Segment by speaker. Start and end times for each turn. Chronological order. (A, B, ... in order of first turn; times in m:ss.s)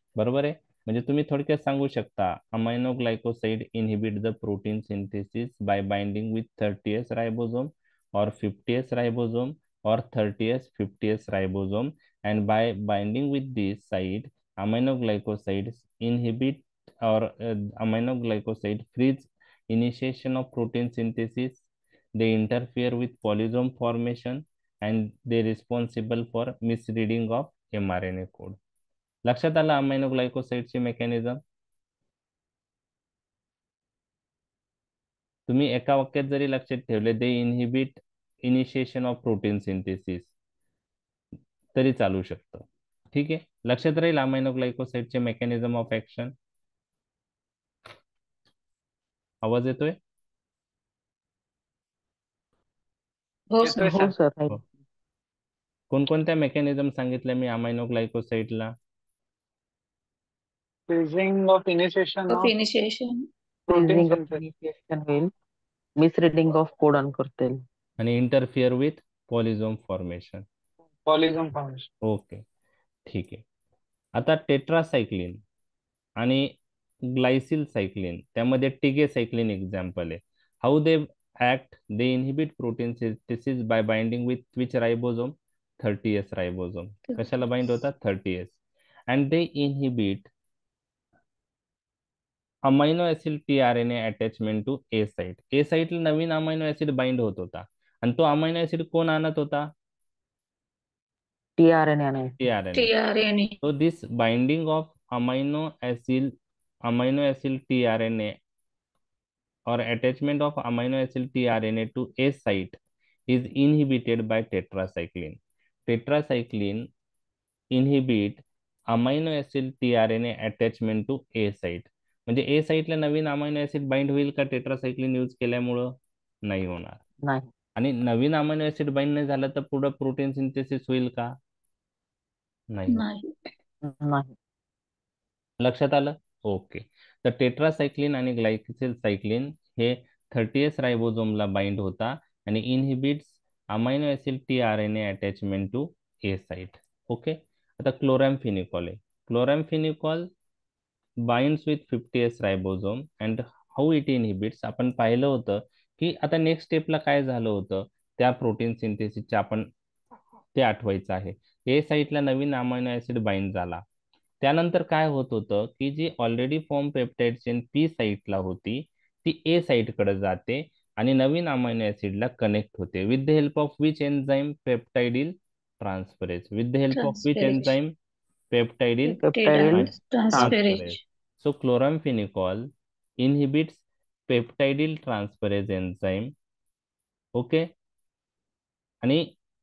0:00.2-0:21.6 A
0:22.2-0:28.6 A
0:29.2-0:31.4 A
0:35.5-0:40.3 A
0:41.8-0:46.3 A
0:49.4-0:50.0 A
0:53.5-0:54.1 B
0:53.6-0:54.1 C
0:53.7-0:54.6 D
0:55.9-0:58.7 A
1:00.9-1:02.5 C
1:02.3-1:03.2 B
1:03.7-1:04.4 C
1:03.7-1:05.3 D
1:06.0-1:07.6 D
1:08.0-1:10.4 A
1:11.1-1:11.9 C
1:12.0-1:12.4 A
1:13.1-1:13.4 A
1:14.2-1:15.4 A
1:16.2-1:28.6 A
1:29.1-1:30.3 A
1:32.7-1:39.7 A
1:41.6-1:42.4 D
1:42.4-1:42.9 A
1:42.7-1:43.6 B
1:43.6-1:46.3 A
1:46.8-1:48.4 A
1:49.7-1:56.9 A
1:57.7-2:05.9 A
2:06.4-2:07.0 A
2:07.2-2:07.5 D
2:07.8-2:11.3 A
2:12.7-2:13.0 A
2:12.9-2:13.3 B
2:13.8-2:14.3 D
2:15.6-2:30.3 A
2:31.2-2:39.7 A
2:40.5-2:43.8 A
2:44.4-2:58.0 A
2:56.9-2:57.8 B
2:58.5-3:06.3 A
2:59.2-3:00.6 D
2:59.3-3:01.0 B
3:07.4-3:07.7 A
3:09.0-3:09.3 A